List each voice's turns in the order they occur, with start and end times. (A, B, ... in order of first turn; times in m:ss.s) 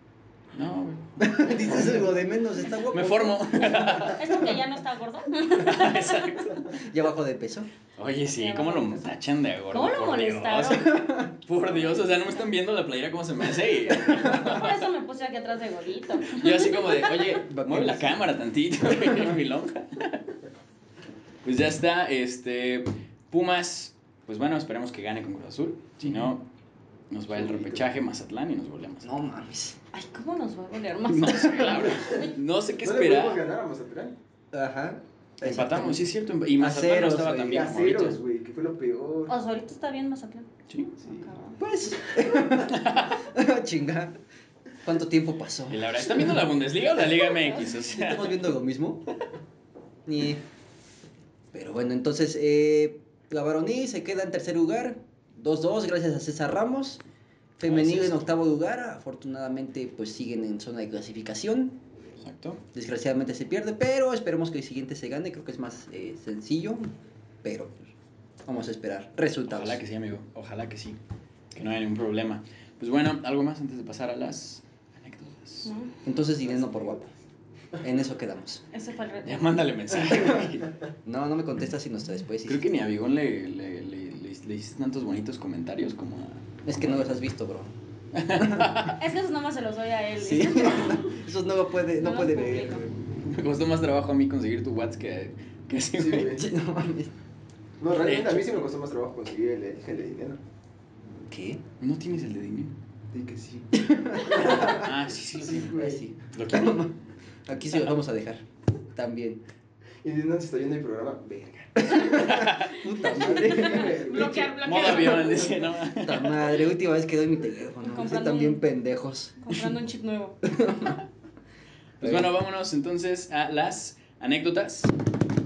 0:00.5-0:02.0 A
0:01.2-0:04.2 B
0:02.8-0:04.4 A
0:04.1-0:06.3 C
0:05.5-0:06.6 A
0:06.7-0:07.7 B
0:08.0-0:14.8 A
0:08.3-0:09.1 C
0:09.7-0:10.9 C
0:10.7-0:11.4 B
0:14.2-0:17.0 C
0:16.3-0:20.2 A
0:17.4-0:18.3 B
0:19.0-0:19.3 B
0:21.4-0:26.4 A
0:26.0-0:26.3 B
0:27.1-0:29.1 A
0:27.3-0:27.8 D
0:29.0-0:29.8 B
0:29.9-0:32.3 C
0:31.1-0:33.4 A
0:32.8-0:34.2 D
0:34.5-0:37.6 B
0:35.4-0:38.2 A
0:37.5-0:39.3 D
0:39.3-0:40.5 C
0:41.0-0:41.6 C
0:41.6-0:44.2 B
0:42.6-0:43.1 A
0:44.8-0:46.4 B
0:45.7-0:48.5 A
0:47.5-0:49.0 B
0:50.0-0:50.4 B
0:51.5-0:57.0 B
0:57.6-1:01.8 B
0:57.6-0:58.3 A
1:02.2-1:02.6 A
1:02.7-1:07.9 B
1:08.4-1:09.8 B
1:09.5-1:11.0 A
1:11.5-1:15.7 A
1:15.6-1:15.9 C
1:16.0-1:17.1 B
1:16.6-1:17.0 D
1:17.8-1:18.6 B
1:18.7-1:19.6 C
1:19.2-1:20.7 A
1:21.0-1:22.7 B
1:22.4-1:27.0 A
1:26.6-1:27.7 B
1:28.1-1:29.0 A
1:28.3-1:28.8 B
1:28.9-1:31.2 C
1:30.2-1:32.9 B
1:32.0-1:32.8 C
1:33.2-1:36.4 A
1:36.0-1:36.4 D
1:36.2-1:37.1 B
1:37.8-1:40.4 D
1:38.0-1:38.6 A
1:41.3-1:41.6 B
1:41.8-1:42.8 A
1:43.1-1:46.0 D
1:43.8-1:44.8 B
1:44.4-1:46.9 A
1:45.7-1:46.9 B
1:47.5-1:49.4 B
1:50.0-1:52.0 D
1:51.8-1:54.2 B
1:52.1-1:52.8 A
1:53.0-1:55.2 D
1:53.4-1:55.5 C
1:54.3-1:56.5 A
1:55.9-1:59.7 B
1:57.8-1:58.6 C
1:59.4-2:00.4 C
2:00.4-2:01.0 B
2:02.0-2:04.9 A
2:02.0-2:02.3 B